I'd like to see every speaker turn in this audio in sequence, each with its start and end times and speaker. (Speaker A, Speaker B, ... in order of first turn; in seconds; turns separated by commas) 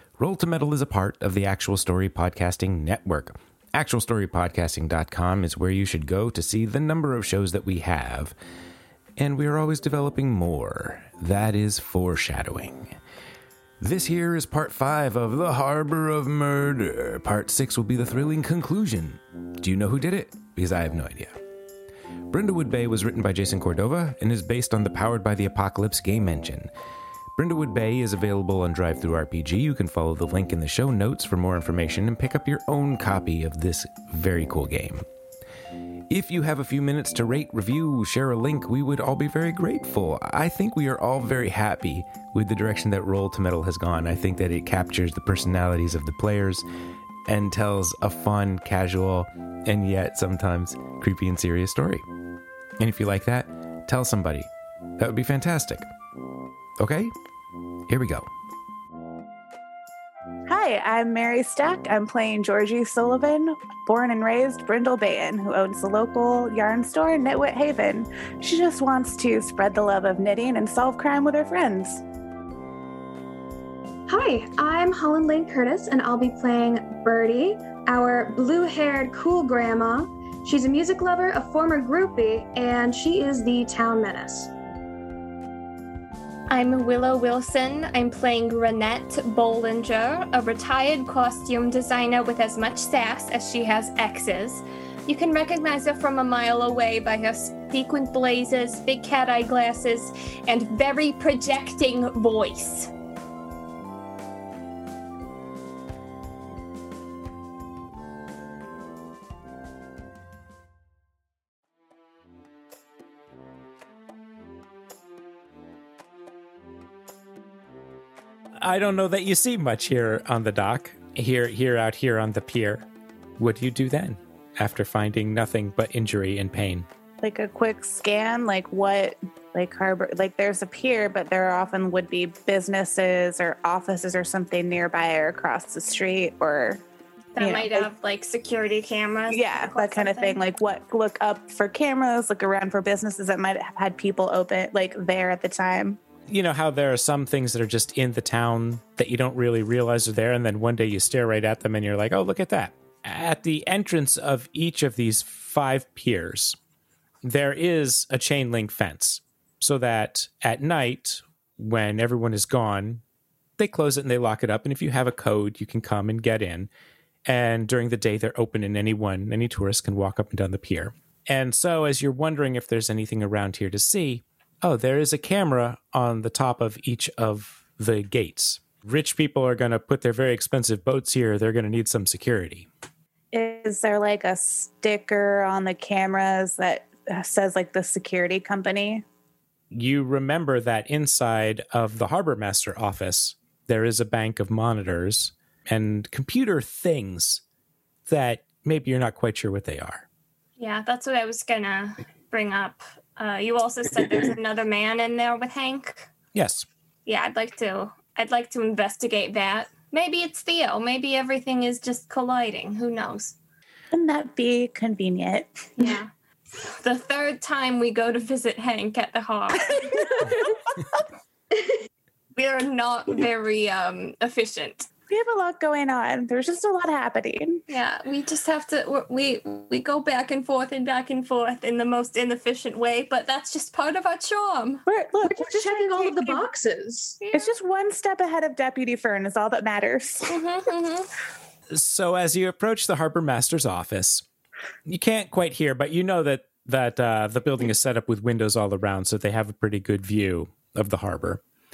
Speaker A: 0.2-8.3, Speaker A: 9.2-13.0, Speaker A: 13.8-21.4, Speaker A: 22.3-26.7, Speaker A: 27.4-35.0, Speaker A: 36.1-46.6, Speaker A: 47.3-52.0, Speaker A: 52.8-55.9, Speaker A: 56.8-57.1, Speaker A: 57.9-58.3, Speaker B: 60.5-72.0, Speaker C: 74.1-84.5, Speaker D: 86.5-102.9, Speaker A: 118.6-126.9, Speaker B: 127.2-136.8, Speaker D: 137.3-140.4, Speaker B: 137.4-137.9, Speaker B: 139.3-146.0, Speaker A: 146.3-156.6, Speaker A: 157.2-163.0, Speaker A: 163.6-166.7, Speaker A: 167.2-182.7, Speaker B: 183.3-189.0, Speaker A: 189.7-197.4, Speaker A: 198.1-200.1, Speaker D: 200.6-206.1, Speaker A: 206.3-206.7, Speaker D: 207.1-213.3, Speaker B: 213.9-215.7, Speaker D: 215.8-216.1, Speaker D: 216.6-220.5, Speaker B: 220.0-220.3, Speaker D: 222.3-224.9, Speaker B: 225.1-227.6, Speaker D: 227.7-234.8, Speaker B: 234.9-236.5, Speaker C: 235.2-237.2, Speaker D: 237.2-237.5, Speaker B: 237.3-240.3, Speaker D: 240.3-241.1, Speaker A: 241.7-244.2, Speaker A: 244.8-251.4